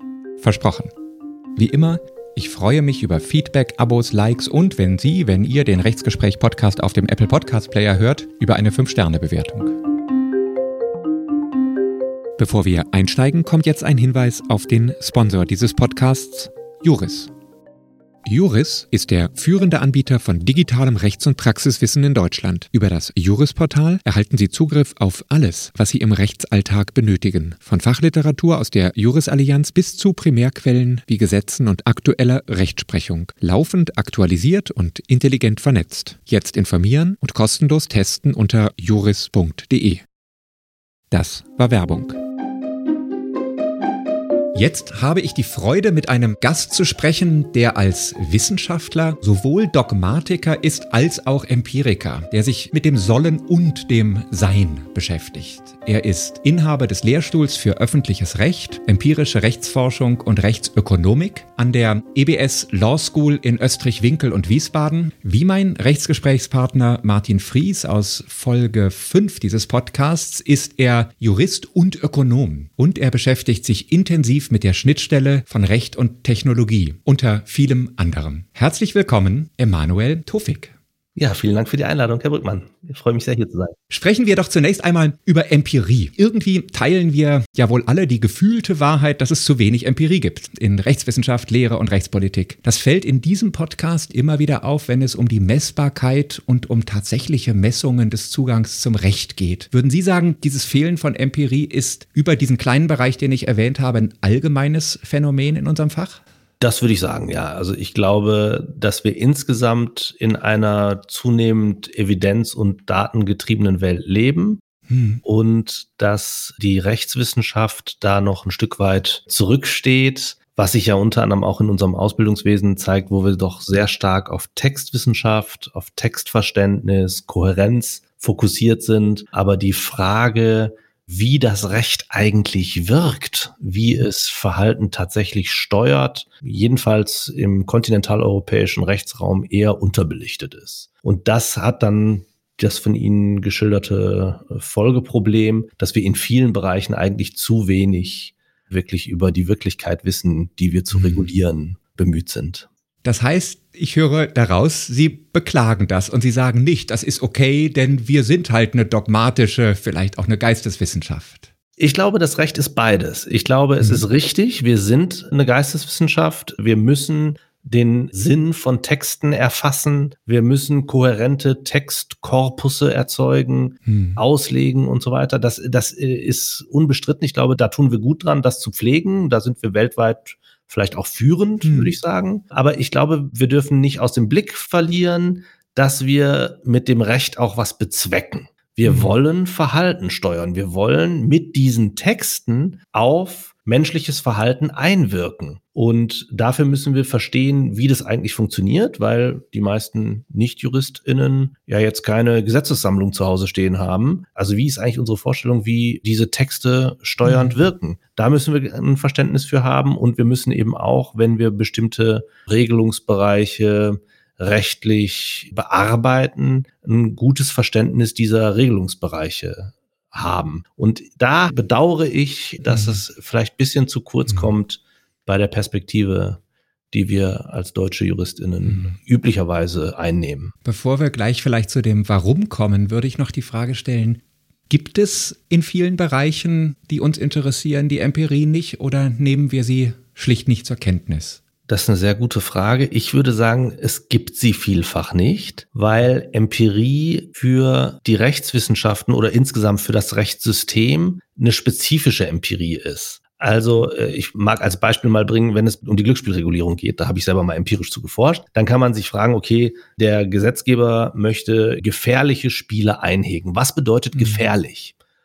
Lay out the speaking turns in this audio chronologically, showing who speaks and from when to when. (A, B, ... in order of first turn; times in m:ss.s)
0:00.4-0:00.9 A
0:01.6-0:09.8 A
0:12.4-0:17.3 A
0:18.2-0:40.0 A
0:41.1-0:42.2 A
0:44.5-1:20.7 A
1:21.2-1:23.8 B
1:23.9-1:46.2 A
1:46.6-1:54.6 B
1:54.9-1:55.2 A
1:55.2-2:32.7 B
2:30.9-2:31.3 A
2:33.0-2:41.5 A
2:41.8-3:46.4 B
2:53.9-2:54.2 A
3:01.6-3:01.9 A
3:08.8-3:09.1 A
3:27.2-3:27.6 A
3:42.7-3:43.0 A
3:46.9-3:50.5 B
3:48.6-3:49.0 A
3:50.6-4:01.4 A
4:01.7-4:24.9 B
4:24.2-4:24.4 A